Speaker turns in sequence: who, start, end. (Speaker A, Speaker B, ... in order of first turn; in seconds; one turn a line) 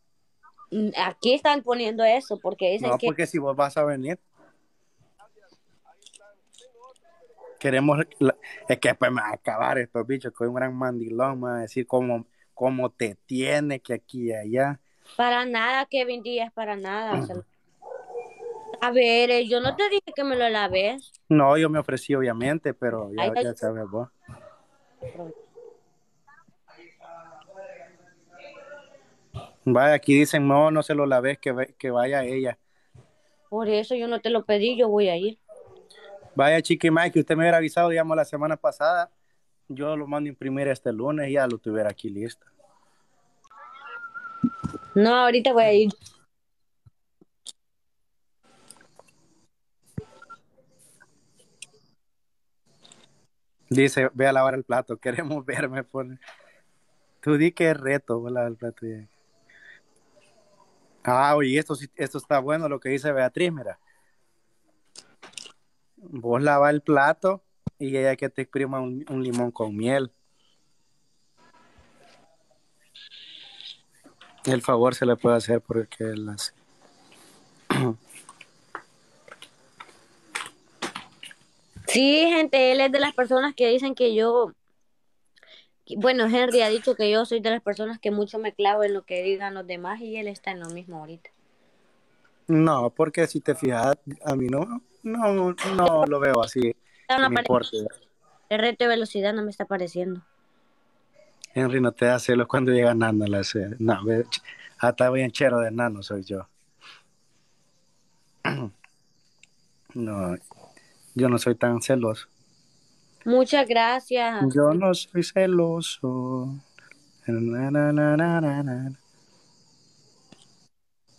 Speaker A: 0.7-3.1
Speaker B: 2.8-4.2
Speaker B: 7.6-14.8
Speaker A: 15.2-17.4
Speaker A: 18.8-21.1
Speaker B: 21.3-24.1
Speaker A: 23.2-23.5
Speaker B: 29.7-32.6
Speaker A: 33.5-35.4
Speaker B: 36.4-39.1
Speaker B: 39.7-42.5
Speaker A: 45.0-45.9
Speaker B: 53.7-56.2
Speaker B: 57.2-59.1
Speaker B: 61.0-63.8
Speaker B: 66.1-70.1
Speaker B: 74.5-76.5
Speaker A: 81.9-84.5
Speaker A: 85.9-91.3
Speaker B: 92.5-97.9
Speaker A: 97.1-97.6
Speaker A: 98.5-100.2
Speaker B: 101.6-106.5
Speaker B: 110.0-110.4
Speaker B: 111.2-112.3
Speaker A: 113.2-114.8
Speaker B: 114.4-116.6
Speaker B: 117.2-119.0